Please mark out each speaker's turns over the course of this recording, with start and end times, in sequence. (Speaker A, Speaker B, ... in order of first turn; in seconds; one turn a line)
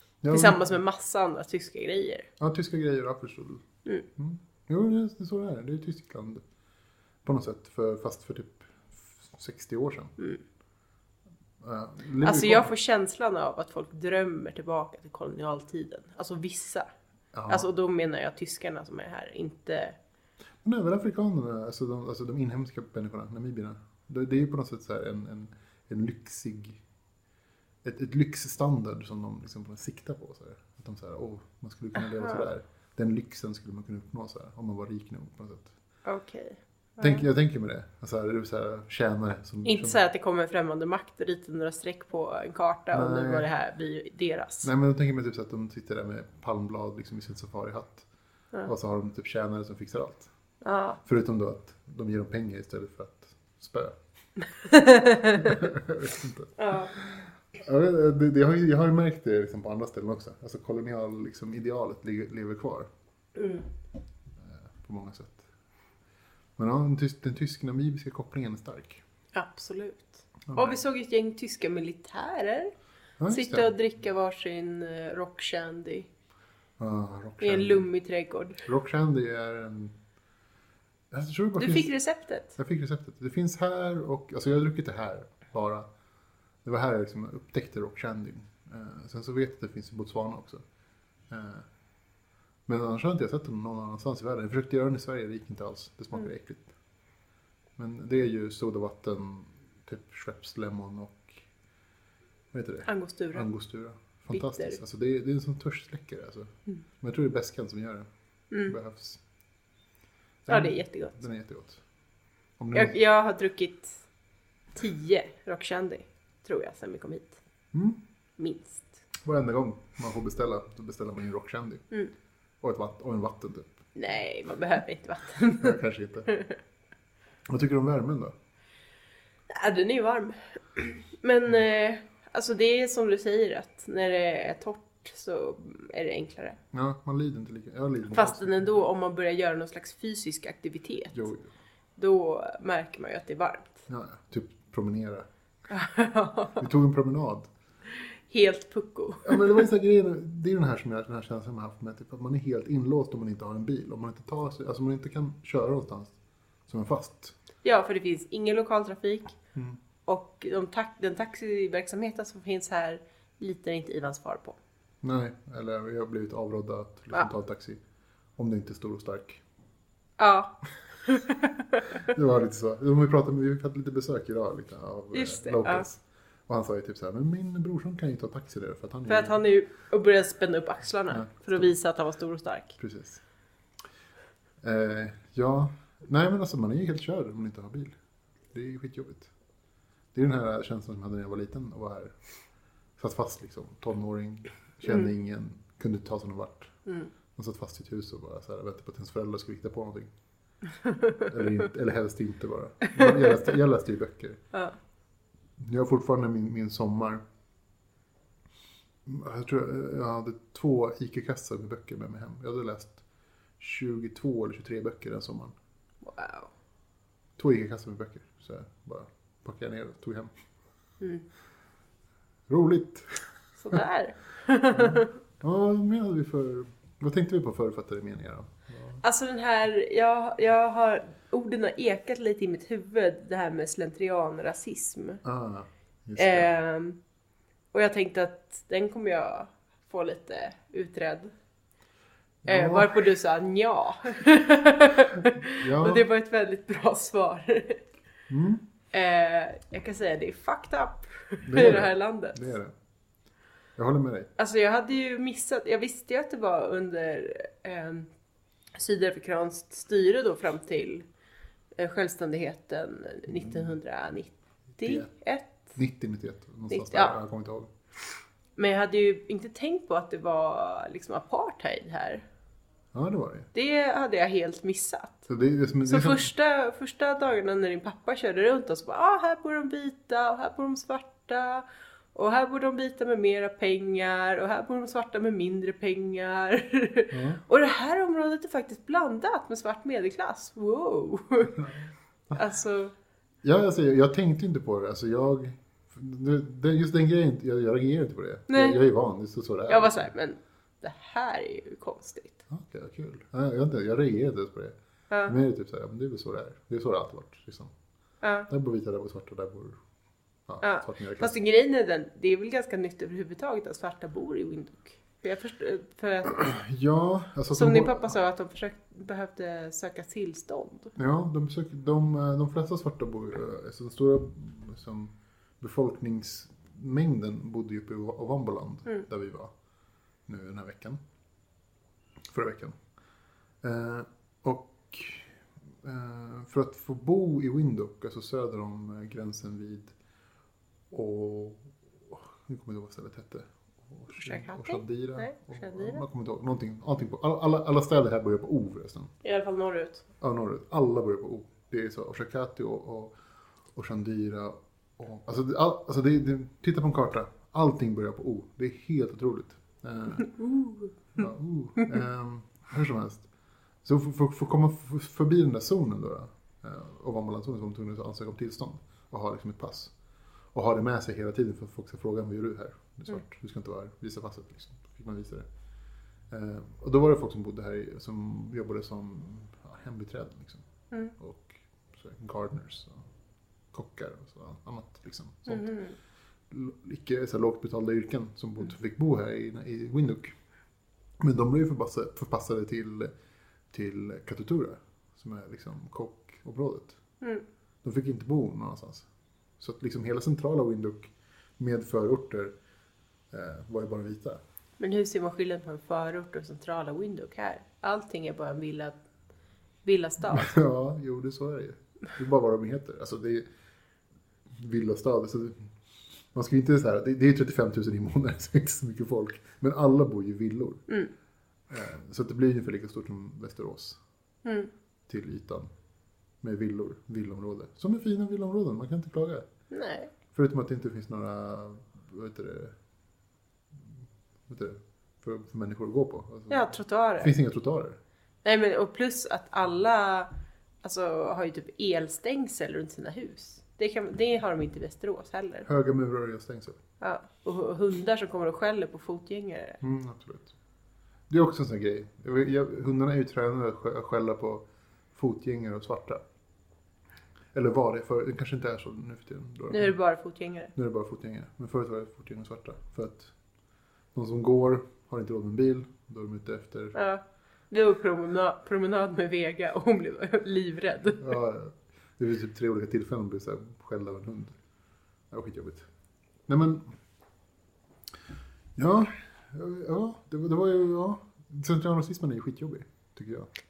Speaker A: 0.2-0.8
Speaker B: 0.3-2.3
Speaker A: 2.4-3.6
Speaker A: 4.2-6.4
Speaker A: 7.2-10.1
Speaker A: 11.6-12.7
Speaker B: 12.2-16.9
Speaker A: 17.3-17.7
Speaker B: 17.5-20.0
Speaker A: 20.6-26.8
Speaker A: 27.8-35.7
Speaker B: 32.0-32.5
Speaker B: 36.0-37.2
Speaker A: 37.0-40.0
Speaker B: 39.6-44.7
Speaker A: 42.9-43.5
Speaker A: 44.6-48.1
Speaker A: 48.6-50.3
Speaker B: 50.6-51.0
Speaker A: 51.0-53.9
Speaker B: 54.7-55.5
Speaker A: 55.2-56.8
Speaker B: 56.6-57.1
Speaker A: 57.5-62.9
Speaker B: 63.3-63.7
Speaker A: 64.4-65.5
Speaker A: 66.6-69.0
Speaker B: 69.3-72.7
Speaker A: 70.5-70.8
Speaker A: 73.2-73.7
Speaker B: 73.3-76.1
Speaker A: 76.8-77.9
Speaker B: 77.4-78.6
Speaker A: 78.6-80.0
Speaker A: 81.1-81.9
Speaker B: 81.6-82.5
Speaker A: 82.5-85.9
Speaker A: 86.6-90.6
Speaker A: 91.3-91.7
Speaker A: 92.7-96.7
Speaker A: 97.8-101.4
Speaker A: 102.5-108.1
Speaker B: 102.9-103.5
Speaker B: 104.3-104.8
Speaker B: 108.5-108.8
Speaker A: 108.6-109.2
Speaker A: 110.5-111.8
Speaker B: 110.5-111.2
Speaker A: 112.6-113.0
Speaker B: 112.7-114.0
Speaker B: 114.7-117.4
Speaker A: 117.7-118.0
Speaker B: 118.4-118.9
Speaker A: 119.2-121.8
Speaker A: 122.6-123.8
Speaker B: 123.9-125.8
Speaker A: 125.6-126.4
Speaker A: 127.5-128.3
Speaker B: 129.5-136.6
Speaker A: 136.7-138.8
Speaker B: 138.1-141.2
Speaker A: 141.1-141.5
Speaker B: 142.0-143.8
Speaker A: 143.9-145.3
Speaker B: 145.7-146.6
Speaker A: 146.6-147.5
Speaker B: 148.3-149.7
Speaker A: 149.2-156.1
Speaker A: 156.7-157.3
Speaker B: 157.6-159.4
Speaker B: 160.1-164.6
Speaker A: 165.0-167.8
Speaker A: 168.4-169.4
Speaker B: 170.2-172.1
Speaker A: 171.9-179.4
Speaker B: 175.1-175.9
Speaker B: 179.1-182.8
Speaker A: 181.1-181.7
Speaker A: 182.8-183.2
Speaker A: 184.6-187.9
Speaker A: 188.5-189.3
Speaker A: 190.1-192.1
Speaker A: 193.0-200.1
Speaker A: 201.2-204.4
Speaker B: 202.9-203.4
Speaker A: 205.6-207.2
Speaker A: 209.1-213.0
Speaker A: 213.6-215.5
Speaker B: 216.0-216.5
Speaker A: 217.4-220.3
Speaker B: 221.0-221.2
Speaker A: 222.5-223.8
Speaker B: 223.6-225.1
Speaker A: 224.7-229.0
Speaker B: 229.0-235.2
Speaker A: 235.2-236.5
Speaker B: 236.2-237.0
Speaker B: 237.7-241.3
Speaker A: 242.4-243.0
Speaker B: 242.5-247.8
Speaker A: 245.4-246.1
Speaker A: 248.3-248.6
Speaker B: 248.9-252.5
Speaker A: 251.4-252.7
Speaker A: 253.8-254.3
Speaker B: 254.4-258.1
Speaker B: 258.7-261.1
Speaker B: 261.8-265.5
Speaker A: 263.3-263.7
Speaker A: 264.8-265.1
Speaker A: 265.7-267.7
Speaker B: 266.7-267.2
Speaker B: 268.6-272.2
Speaker A: 272.9-273.5
Speaker B: 273.5-275.3
Speaker A: 275.3-276.3
Speaker B: 275.8-291.6
Speaker A: 287.1-287.4
Speaker A: 291.5-292.4
Speaker B: 292.4-292.9
Speaker A: 293.4-300.1
Speaker B: 298.5-298.8
Speaker B: 299.7-302.4
Speaker A: 302.5-307.7
Speaker B: 305.1-305.4
Speaker B: 308.2-308.5
Speaker A: 308.5-309.8
Speaker A: 310.5-311.4
Speaker B: 310.6-316.4
Speaker A: 316.2-318.2
Speaker B: 317.5-320.9
Speaker A: 320.9-329.5
Speaker A: 330.3-331.0
Speaker A: 332.3-332.8
Speaker A: 333.6-335.3
Speaker A: 335.8-339.9
Speaker A: 340.9-349.1
Speaker B: 344.2-346.0
Speaker B: 349.2-350.0
Speaker A: 350.2-353.1
Speaker A: 353.7-360.3
Speaker B: 360.2-361.2
Speaker A: 361.1-363.3
Speaker A: 363.8-369.9
Speaker A: 370.5-375.5
Speaker A: 376.3-380.6
Speaker A: 381.2-383.0
Speaker A: 383.7-385.8
Speaker B: 385.5-385.9
Speaker A: 386.5-390.3
Speaker A: 391.2-393.1
Speaker A: 393.7-397.0
Speaker A: 397.8-399.1
Speaker A: 399.6-402.5
Speaker A: 403.3-404.4
Speaker B: 404.8-409.0
Speaker B: 409.8-410.5
Speaker A: 410.2-413.4
Speaker A: 414.6-415.7
Speaker A: 416.3-420.8
Speaker A: 421.7-424.0
Speaker B: 424.4-424.7
Speaker A: 425.1-425.7
Speaker A: 426.4-429.4
Speaker B: 429.7-430.1
Speaker A: 430.3-432.7
Speaker A: 434.5-438.0
Speaker B: 436.5-437.3
Speaker B: 438.4-440.3
Speaker B: 440.8-445.7
Speaker A: 445.6-446.8
Speaker B: 447.0-449.8
Speaker A: 449.8-450.6
Speaker A: 451.3-456.2
Speaker A: 457.5-460.0
Speaker B: 459.7-460.7
Speaker A: 460.7-463.3
Speaker A: 464.1-467.0
Speaker B: 466.9-471.3
Speaker A: 471.2-474.6
Speaker A: 475.3-475.9
Speaker A: 476.5-476.9
Speaker A: 478.8-483.5